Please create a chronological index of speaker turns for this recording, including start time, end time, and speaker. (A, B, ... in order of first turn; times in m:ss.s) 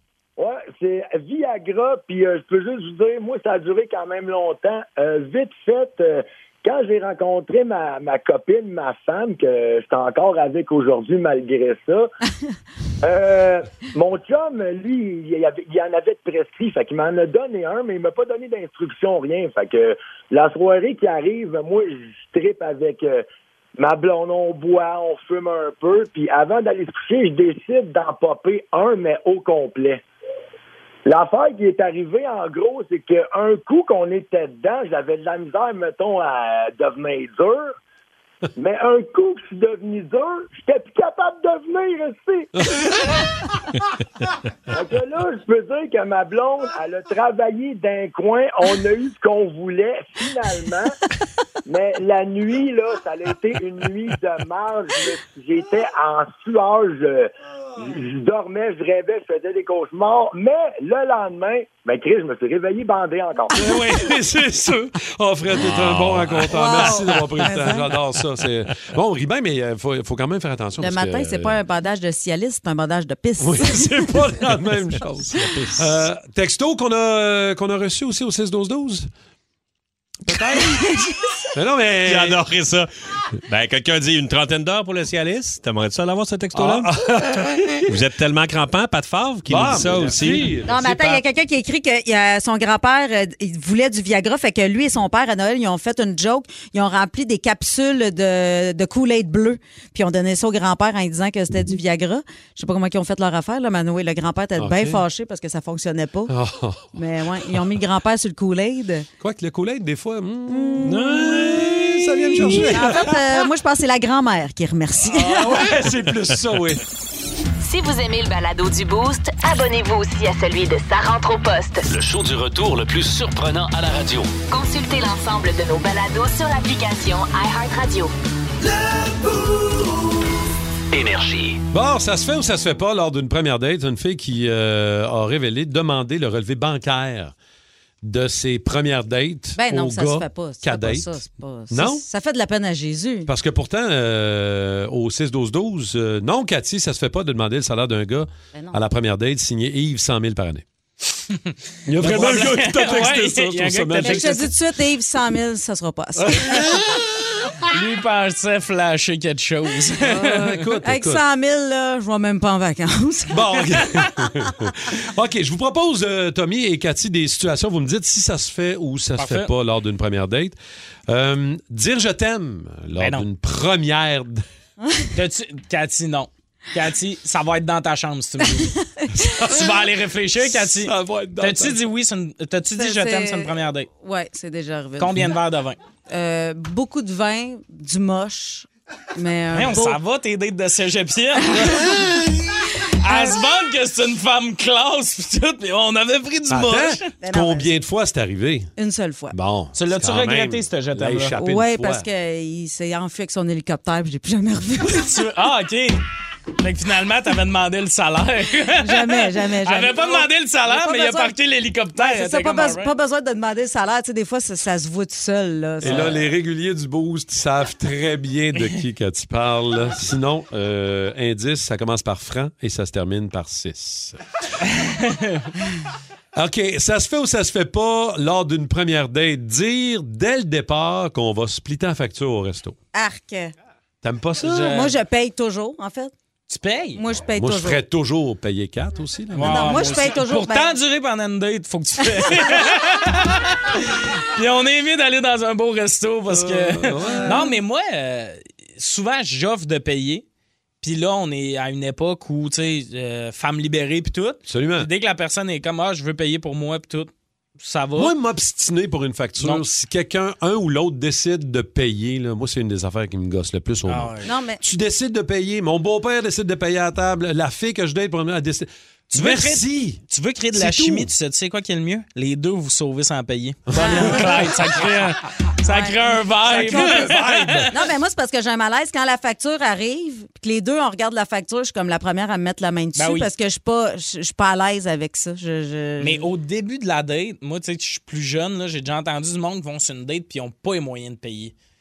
0:00.4-0:12.1 A
0:13.0-0:23.2 A
0:23.8-0:30.0 A
0:31.0-0:37.8 A
0:38.6-0:42.5 A
0:44.7-0:51.0 A
0:51.7-1:03.6 A
1:03.5-1:11.6 B
1:05.6-1:07.3 C
1:06.5-1:07.9 D
1:10.8-1:14.2 D
1:13.4-1:19.1 B
1:20.2-1:21.0 B
1:20.6-1:21.1 D
1:21.5-1:22.4 B
1:22.0-1:26.9 C
1:26.6-1:27.9 B
1:27.9-1:30.5 C
1:29.5-1:31.2 B
1:30.6-1:46.3 D
1:44.6-1:45.0 B
1:46.3-1:46.9 B
1:46.9-1:49.1 D
1:49.2-1:53.4 B
1:50.5-1:51.7 D
1:50.8-1:52.8 C
1:52.3-1:55.6 D
1:55.1-1:56.8 B
1:57.6-2:01.9 E
2:01.9-2:04.3 F
2:04.5-2:08.1 E
2:10.9-2:11.6 F
2:11.7-2:17.3 B
2:18.0-2:22.0 B
2:19.6-2:23.3 D
2:23.3-2:30.6 B
2:28.5-2:28.8 D
2:31.9-2:34.5 B
2:32.0-2:34.4 G
2:34.0-2:36.6 D
2:36.3-2:37.0 B
2:37.7-2:40.7 G
2:40.0-2:41.2 B
2:40.8-2:43.4 D
2:43.3-2:50.6 B
2:49.2-2:49.5 G
2:51.1-2:54.4 B
2:53.0-2:53.3 G
2:55.1-2:58.8 G
2:59.0-2:59.2 D
2:59.1-2:59.8 B
2:59.4-3:03.9 G
3:00.4-3:01.8 B
3:02.8-3:05.3 D
3:05.0-3:05.8 G
3:06.1-3:10.0 D
3:09.5-3:12.0 G
3:11.6-3:12.0 D
3:12.9-3:17.1 G
3:13.0-3:13.4 D
3:16.5-3:18.7 B
3:17.2-3:17.7 D
3:18.8-3:19.4 D
3:19.3-3:22.1 B
3:19.7-3:21.3 G
3:21.4-3:25.2 D
3:24.9-3:26.0 G
3:26.6-3:32.9 G
3:28.8-3:31.3 D
3:32.0-3:36.1 D
3:35.8-3:44.2 B
3:35.8-3:36.2 G
3:44.8-3:45.5 G
3:46.3-3:52.8 B
3:52.9-3:53.5 D
3:54.0-3:54.8 B
3:54.4-3:55.0 G
3:54.6-3:56.1 D
3:56.5-3:57.0 G
3:57.0-3:57.8 D
3:57.3-3:59.8 B
3:59.3-4:10.2 G
3:59.4-4:00.8 D
4:06.3-4:07.5 B
4:07.3-4:07.5 D
4:10.8-4:18.1 G
4:14.5-4:14.9 B
4:18.0-4:30.0 B
4:19.4-4:19.6 G
4:23.9-4:24.3 G
4:24.2-4:24.6 D
4:29.1-4:37.7 G
4:30.5-4:31.1 B
4:33.7-4:34.4 B
4:33.7-4:34.5 D
4:35.6-4:37.1 D
4:36.4-4:37.8 B
4:37.7-4:46.3 D
4:43.0-4:43.3 G
4:46.0-4:51.6 G